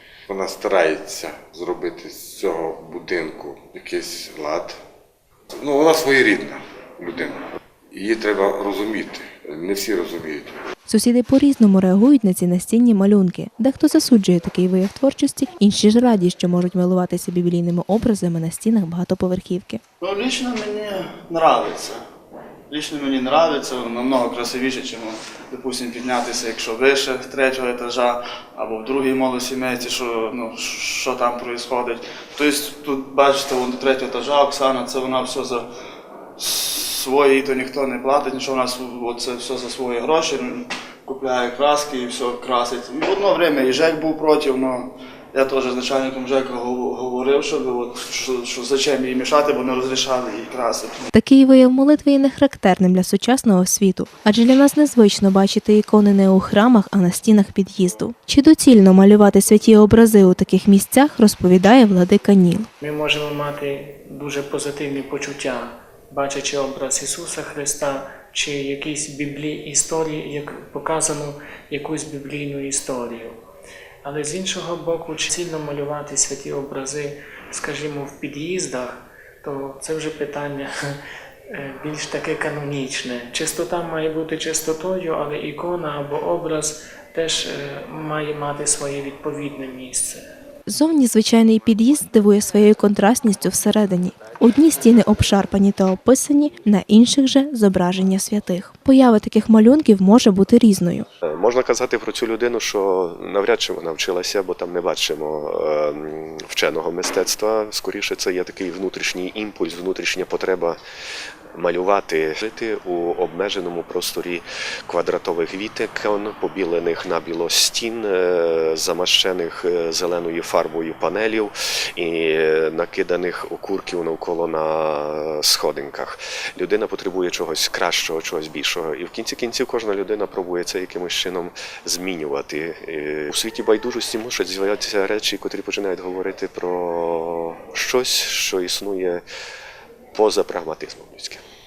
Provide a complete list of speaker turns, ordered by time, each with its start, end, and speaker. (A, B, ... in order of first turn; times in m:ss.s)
0:00.3-0:04.8 A
0:05.5-0:10.6 A
0:10.9-0:19.8 B
0:20.0-0:22.0 C
0:22.7-0:35.6 C
0:36.4-0:51.1 C
0:51.1-1:02.7 B
1:02.8-1:13.4 D
1:14.0-1:21.0 D
1:21.5-1:30.2 D
1:30.7-1:41.0 B
1:41.2-1:50.8 E
1:51.6-2:19.2 E
2:20.1-2:21.4 E